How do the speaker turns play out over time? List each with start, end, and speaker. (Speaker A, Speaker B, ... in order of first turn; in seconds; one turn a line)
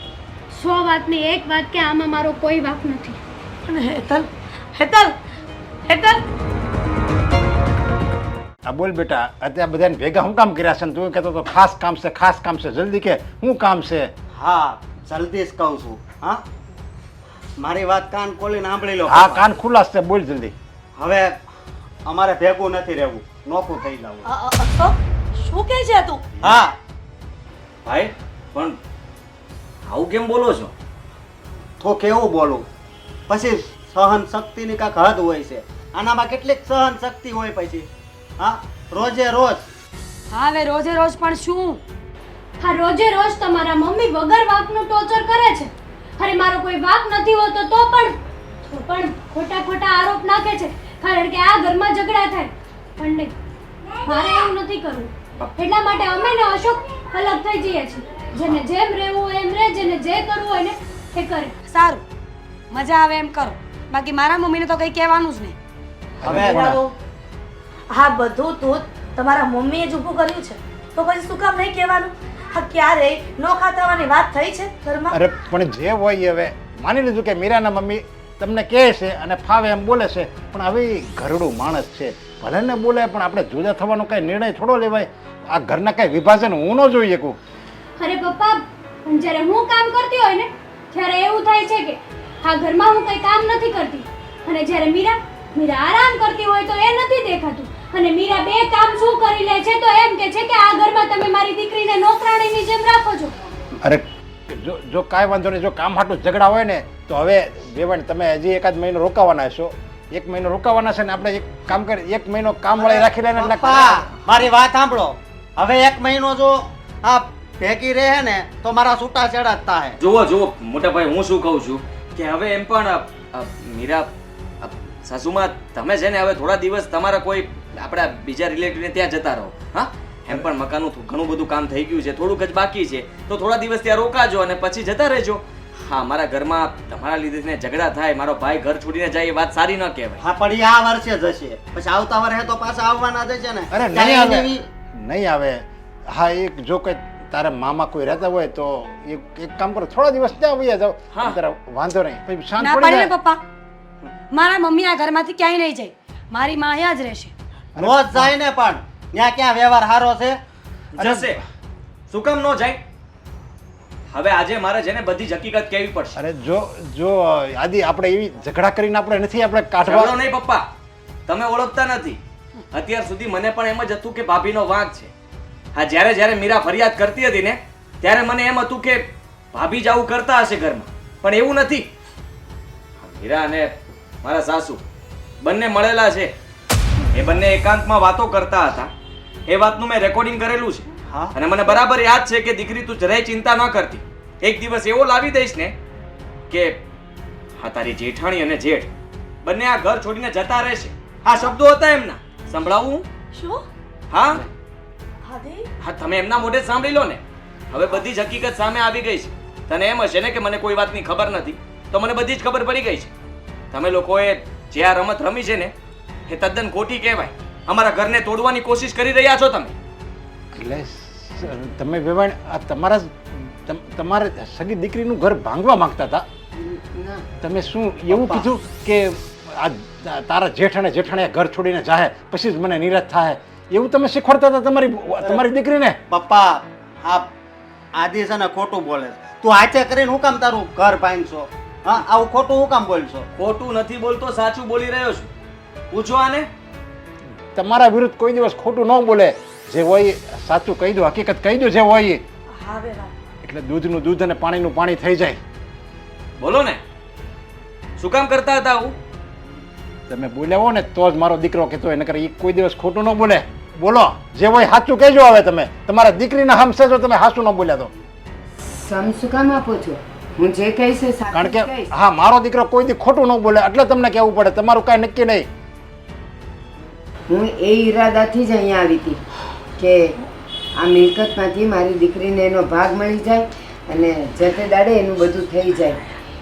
Speaker A: 0.5-3.2
Speaker B: 3.7-5.2
Speaker B: 5.9-6.2
Speaker C: 8.7-14.1
Speaker D: 14.3-16.4
Speaker D: 17.6-19.5
Speaker C: 19.1-20.5
Speaker D: 21.0-21.4
Speaker D: 22.1-24.3
Speaker B: 24.3-26.2
Speaker D: 26.4-26.8
Speaker E: 27.9-28.8
Speaker E: 29.9-30.7
Speaker D: 31.8-32.7
Speaker D: 33.3-37.9
Speaker D: 38.4-39.7
Speaker F: 40.3-41.8
Speaker A: 42.6-53.3
Speaker A: 54.0-61.5
Speaker F: 61.7-62.0
Speaker F: 62.7-65.6
Speaker D: 66.2-66.8
Speaker C: 66.2-66.8
Speaker B: 66.2-66.9
Speaker B: 67.9-75.2
Speaker C: 75.1-87.4
Speaker A: 88.0-103.3
Speaker C: 103.8-114.0
Speaker D: 112.8-120.0
Speaker E: 120.0-124.1
Speaker E: 124.6-140.2
Speaker D: 140.2-144.7
Speaker C: 143.7-153.1
Speaker E: 151.1-151.4
Speaker F: 152.6-153.4
Speaker F: 154.3-157.3
Speaker C: 157.8-158.3
Speaker D: 157.8-160.4
Speaker E: 160.9-161.4
Speaker E: 162.1-162.8
Speaker E: 164.1-166.2
Speaker C: 166.2-170.2
Speaker E: 169.8-170.7
Speaker E: 171.3-172.2
Speaker E: 172.7-175.1
Speaker E: 175.7-181.9
Speaker E: 183.0-184.8
Speaker E: 185.4-186.3
Speaker E: 187.1-188.9
Speaker E: 189.5-195.7
Speaker E: 196.5-196.8
Speaker E: 197.6-198.9
Speaker E: 199.4-203.1
Speaker B: 203.3-203.7
Speaker E: 204.1-204.4
Speaker B: 205.2-205.7
Speaker E: 205.8-213.1
Speaker E: 213.7-215.7
Speaker E: 216.3-219.7
Speaker C: 220.6-226.2
Speaker G: 226.6-227.2
Speaker C: 227.4-236.0
Speaker D: 228.1-228.5
Speaker D: 236.1-237.3
Speaker D: 237.9-243.2
Speaker E: 243.4-245.3
Speaker E: 245.9-246.5
Speaker C: 247.6-252.2
Speaker B: 252.5-253.1
Speaker C: 253.4-255.4
Speaker E: 256.4-256.8
Speaker E: 258.0-259.0
Speaker C: 260.1-267.9
Speaker G: 268.7-271.9
Speaker C: 271.3-275.5
Speaker G: 277.3-279.2
Speaker G: 279.8-280.1
Speaker G: 280.8-286.0